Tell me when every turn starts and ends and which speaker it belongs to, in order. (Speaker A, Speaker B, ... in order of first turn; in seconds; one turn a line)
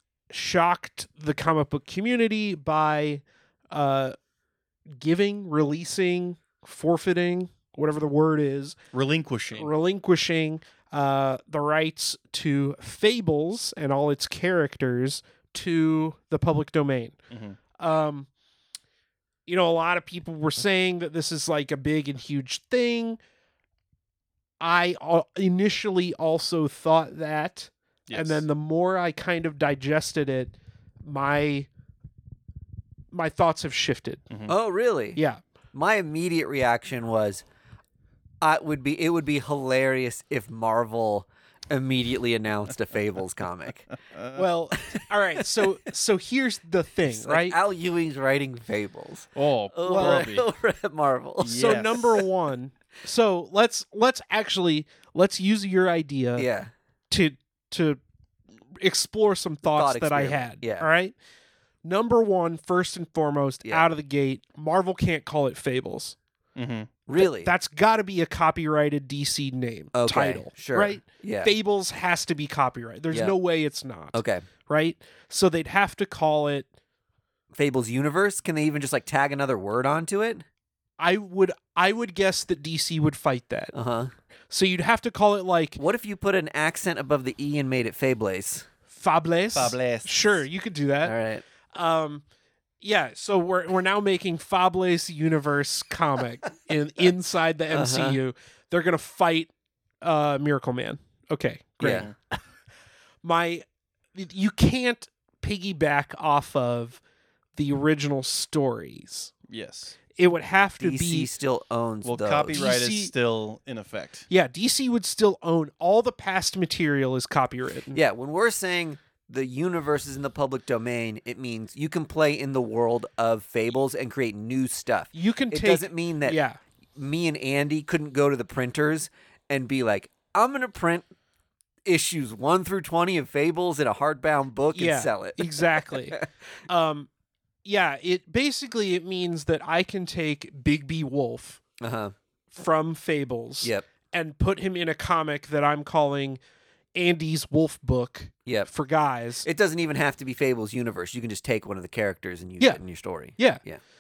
Speaker A: 0.3-4.2
Speaker A: 4.9-8.8
Speaker B: 8.9-9.7
Speaker A: 9.6-17.2
Speaker B: 17.3-17.6
Speaker A: 17.8-18.3
Speaker A: 19.5-23.2
Speaker A: 24.6-31.7
Speaker B: 28.1-28.4
Speaker A: 33.1-34.3
Speaker C: 34.5-35.2
Speaker C: 35.7-37.4
Speaker C: 38.4-43.9
Speaker B: 44.1-44.4
Speaker A: 44.4-47.6
Speaker C: 47.1-52.0
Speaker B: 49.4-50.5
Speaker A: 49.9-50.3
Speaker B: 51.4-52.2
Speaker A: 51.5-56.5
Speaker C: 56.4-56.7
Speaker A: 57.1-58.0
Speaker A: 58.8-61.1
Speaker C: 59.6-60.9
Speaker A: 61.8-66.2
Speaker B: 66.6-66.9
Speaker C: 67.1-67.5
Speaker A: 67.2-76.7
Speaker C: 69.9-71.5
Speaker C: 74.1-74.4
Speaker C: 77.5-80.4
Speaker A: 81.0-83.7
Speaker C: 83.7-84.1
Speaker A: 84.5-85.8
Speaker C: 85.8-88.7
Speaker A: 88.9-91.2
Speaker B: 89.5-90.4
Speaker C: 91.0-91.4
Speaker A: 91.7-92.2
Speaker A: 92.8-99.5
Speaker C: 97.7-98.2
Speaker A: 100.0-102.4
Speaker C: 101.8-102.1
Speaker B: 101.9-102.1
Speaker A: 103.2-107.0
Speaker A: 107.6-109.3
Speaker B: 109.5-110.0
Speaker A: 110.2-111.3
Speaker C: 110.8-112.6
Speaker B: 112.0-114.3
Speaker A: 112.5-113.1
Speaker A: 114.3-118.0
Speaker C: 117.9-126.4
Speaker A: 125.1-126.6
Speaker C: 127.0-131.1
Speaker C: 131.8-136.3
Speaker A: 134.7-137.1
Speaker A: 137.7-141.6
Speaker C: 141.8-142.2
Speaker A: 142.5-146.4
Speaker A: 146.9-149.5
Speaker C: 149.4-153.8
Speaker A: 153.4-153.6